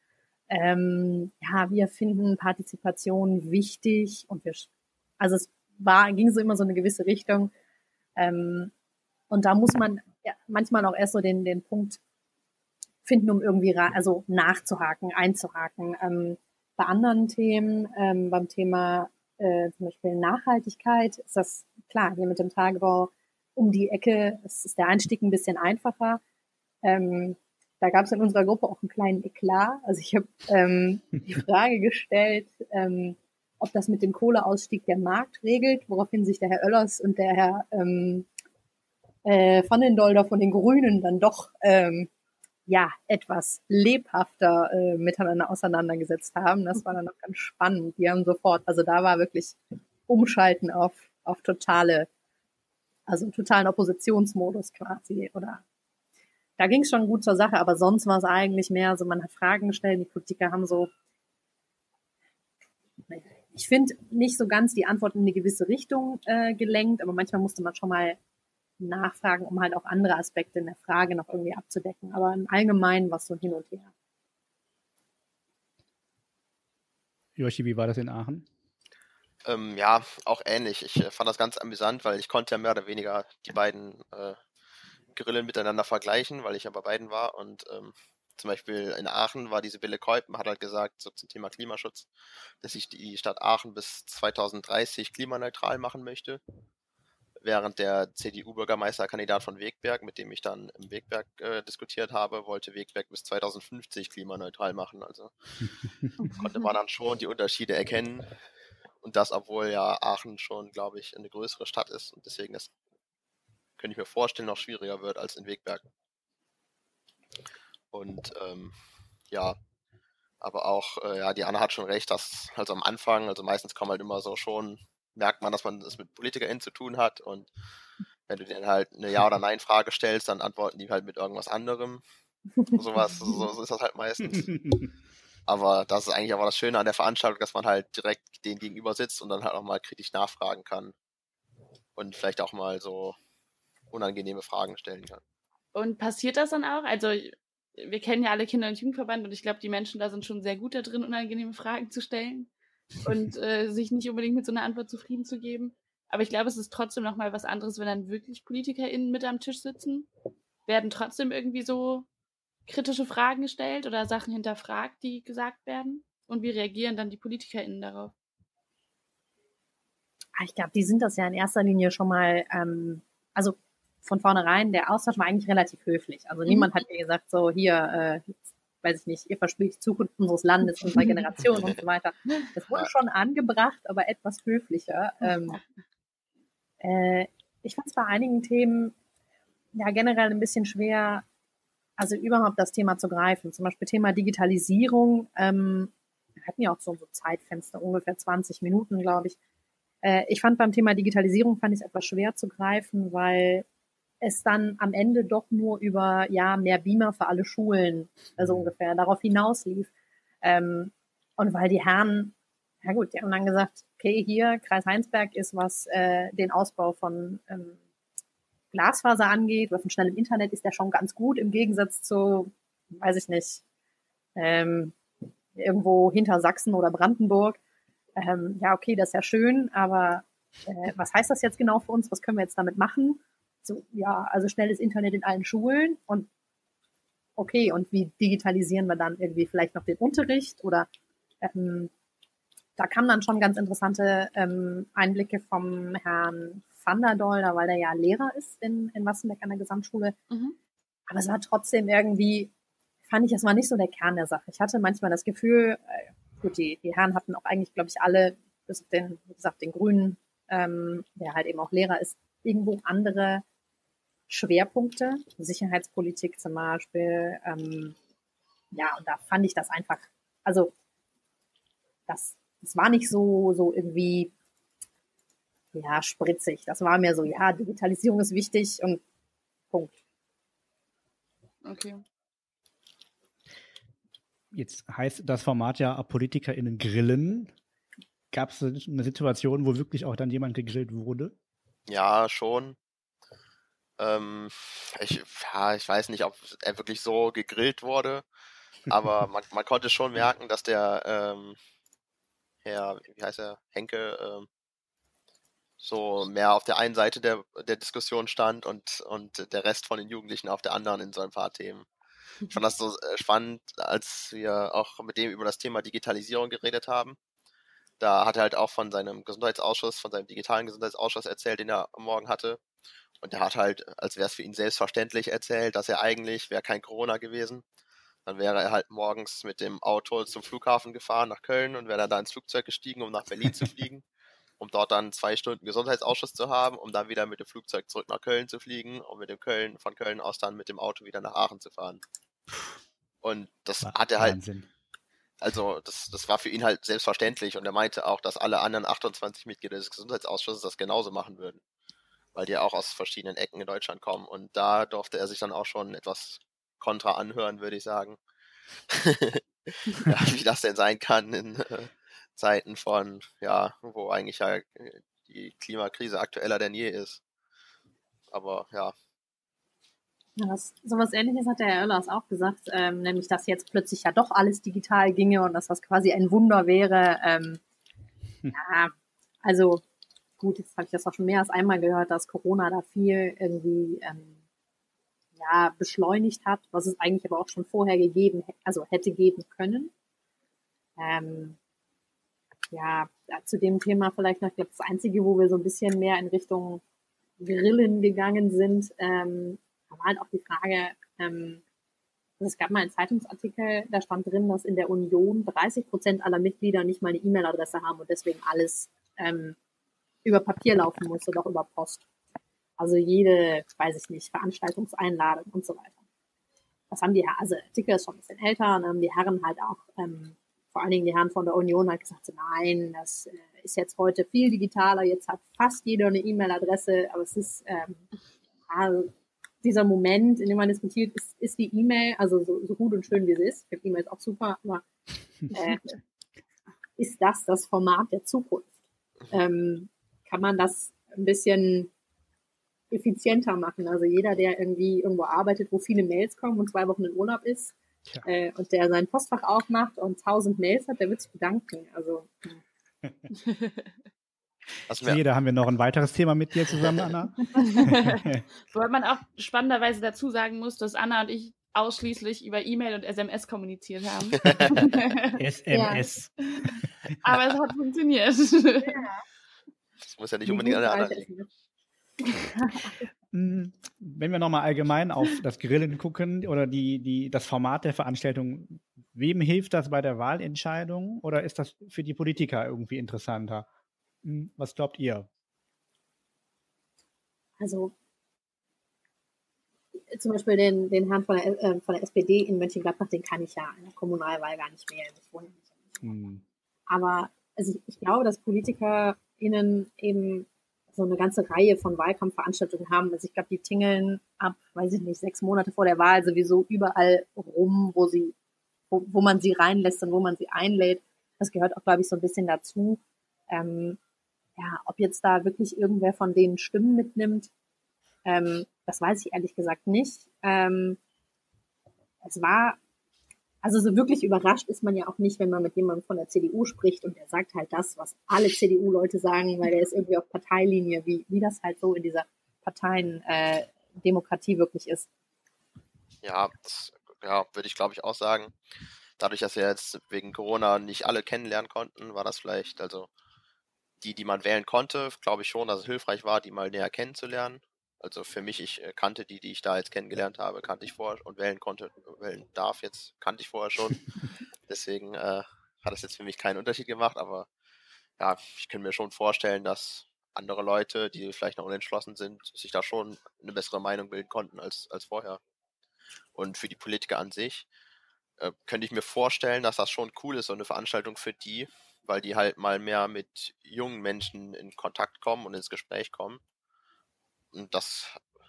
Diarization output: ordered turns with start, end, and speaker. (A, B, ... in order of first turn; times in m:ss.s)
0:00.5-0:07.5 A
0:08.2-0:08.7 A
0:09.3-0:12.0 A
0:13.0-0:26.2 A
0:26.8-0:38.3 A
0:39.2-0:42.1 A
0:42.7-0:52.1 A
0:53.1-0:55.6 A
0:56.6-1:00.9 A
1:03.0-1:08.2 A
1:08.8-1:13.9 A
1:17.4-1:18.5 B
1:19.4-1:24.4 C
1:25.1-1:32.1 C
1:32.6-1:36.4 C
1:37.4-1:45.3 C
1:46.2-1:46.6 D
1:46.4-1:48.3 C
1:49.0-1:52.7 C
1:53.8-1:55.8 C
1:57.9-1:58.7 C
1:59.3-1:59.6 C
2:00.4-2:07.5 C
2:08.3-2:12.0 C
2:12.7-2:14.5 C
2:15.5-2:20.9 C
2:22.0-2:23.2 C
2:23.9-2:25.2 C
2:25.7-2:40.1 D
2:40.7-2:42.1 D
2:42.7-2:48.1 D
2:50.4-3:05.6 A
3:00.8-3:01.2 D
3:06.8-3:08.9 A
3:09.7-3:11.2 A
3:12.0-3:19.4 A
3:20.0-3:23.6 A
3:24.2-3:29.9 A
3:28.4-3:28.7 B
3:30.4-3:37.8 A
3:38.7-3:43.6 A
3:44.4-3:44.9 A
3:45.5-3:47.6 A
3:48.2-3:56.3 A
3:57.4-4:00.9 A
4:01.4-4:01.9 A
4:02.8-4:10.2 A
4:10.3-4:10.6 D
4:11.1-4:12.5 A
4:13.1-4:23.4 A
4:24.3-4:28.0 A
4:28.7-4:30.7 A
4:32.1-4:34.3 A
4:35.7-4:39.0 A
4:39.7-4:40.0 A
4:41.6-4:42.0 D
4:44.5-4:47.5 B
4:48.3-4:51.3 B
4:51.9-4:52.8 C
4:54.0-4:58.2 C
4:58.9-5:01.6 C
5:02.6-5:04.5 C
5:05.8-5:11.9 C
5:12.5-5:17.2 C
5:18.0-5:22.6 C
5:23.2-5:27.6 C
5:28.2-5:34.0 C
5:34.6-5:42.0 C
5:43.2-5:44.4 C
5:43.8-5:44.7 B
5:45.4-5:51.6 C
5:52.3-5:58.2 C
5:58.9-6:07.2 C
6:08.3-6:08.9 C
6:10.4-6:17.6 A
6:18.5-6:18.9 A
6:19.4-6:19.8 A
6:20.4-6:24.4 A
6:25.3-6:29.9 A
6:31.0-6:31.6 A
6:32.7-6:36.8 A
6:37.4-6:41.6 A
6:42.4-6:49.6 A
6:50.2-6:52.0 A
6:52.8-6:56.0 A
6:56.9-7:08.0 A
7:08.7-7:09.1 A
7:09.6-7:14.8 A
7:15.5-7:16.0 A
7:17.0-7:18.7 A
7:19.3-7:21.9 A
7:22.9-7:32.6 A
7:33.4-7:33.9 D
7:34.9-7:35.2 C
7:35.0-7:38.4 B
7:37.6-7:45.3 D
7:45.4-7:47.1 B
7:45.7-7:46.0 A
7:46.5-7:48.9 D
7:48.8-7:49.2 A
7:50.0-7:51.3 C
7:50.4-7:51.5 A
7:52.7-7:52.9 A
7:53.3-8:03.7 B
8:04.2-8:05.3 B
8:07.6-8:07.9 A
8:10.1-8:16.0 A
8:16.0-8:16.4 B
8:16.9-8:28.3 A
8:28.9-8:34.0 A
8:34.6-8:37.5 A
8:38.2-8:41.0 A
8:42.2-8:42.8 A
8:43.6-8:55.1 A
8:56.2-8:58.5 C
8:59.2-9:03.1 C
9:04.0-9:14.0 C
9:14.7-9:17.5 C
9:18.2-9:25.4 C
9:26.3-9:27.7 C
9:28.4-9:36.4 C
9:37.5-9:38.2 C